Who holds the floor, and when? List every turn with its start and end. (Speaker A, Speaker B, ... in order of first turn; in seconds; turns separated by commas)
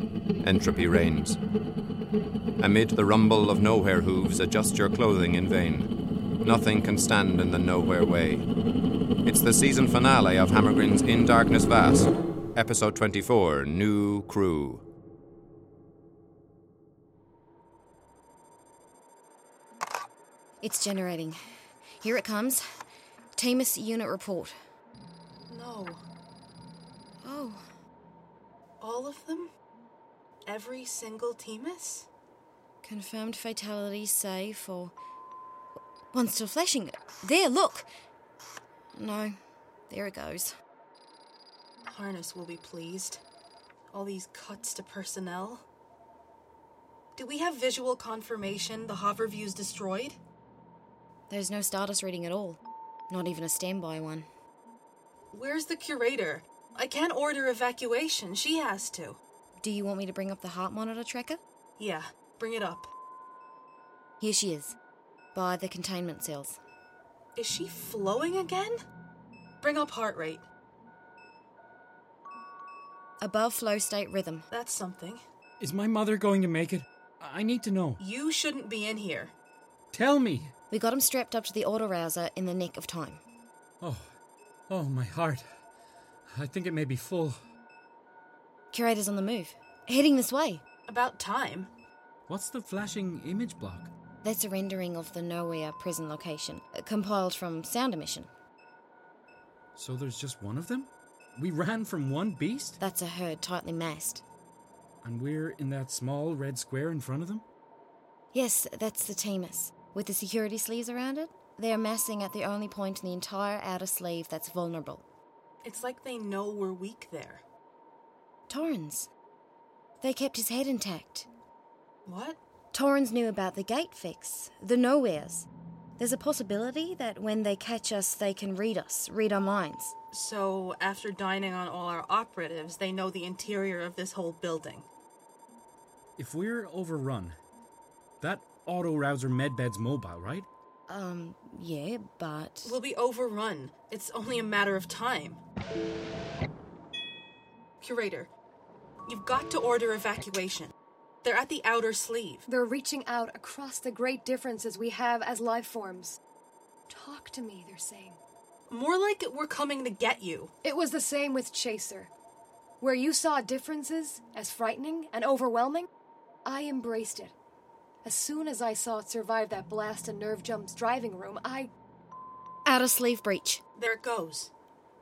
Speaker A: 0.4-1.4, Speaker A: 2.6-5.9, Speaker A: 6.4-8.5, Speaker A: 9.2-14.8, Speaker B: 20.6-21.4, Speaker B: 22.0-22.6, Speaker B: 23.4-24.5, Speaker C: 25.5-26.0, Speaker B: 27.2-27.6, Speaker C: 28.8-29.5, Speaker C: 30.4-32.1, Speaker B: 32.8-34.9, Speaker B: 36.1-37.9, Speaker B: 38.9-39.3, Speaker B: 39.9-40.5, Speaker C: 41.9-43.2, Speaker C: 43.9-45.6, Speaker C: 47.2-50.2, Speaker B: 51.3-54.3, Speaker C: 55.3-59.2, Speaker B: 59.6-61.4, Speaker C: 61.8-62.9, Speaker B: 64.2-64.8, Speaker B: 65.3-66.6, Speaker C: 67.3-68.7, Speaker C: 69.6-70.4, Speaker B: 73.2-74.5, Speaker C: 74.5-75.2, Speaker D: 75.6-78.0, Speaker C: 78.0-79.3, Speaker D: 79.9-80.5, Speaker B: 80.7-83.2, Speaker D: 84.7-85.4, Speaker D: 86.3-87.4, Speaker B: 88.7-90.6, Speaker C: 90.9-91.7, Speaker D: 92.3-93.9, Speaker B: 94.2-98.3, Speaker D: 99.8-102.8, Speaker B: 102.8-104.2, Speaker D: 105.0-107.4, Speaker B: 108.3-115.0, Speaker C: 115.6-117.4, Speaker B: 118.5-119.1, Speaker B: 120.0-121.3, Speaker C: 122.0-122.4, Speaker B: 122.7-129.9, Speaker C: 130.1-134.9, Speaker D: 136.2-137.3, Speaker D: 138.2-140.4, Speaker B: 140.9-142.8, Speaker C: 142.7-145.4, Speaker C: 147.8-148.3, Speaker C: 149.1-150.7, Speaker C: 151.2-152.4, Speaker E: 152.5-156.2, Speaker E: 156.9-158.2, Speaker C: 158.7-160.5, Speaker E: 160.6-162.1, Speaker E: 162.8-165.9, Speaker E: 166.4-167.3, Speaker E: 168.0-171.7, Speaker B: 172.7-173.6, Speaker C: 173.8-174.5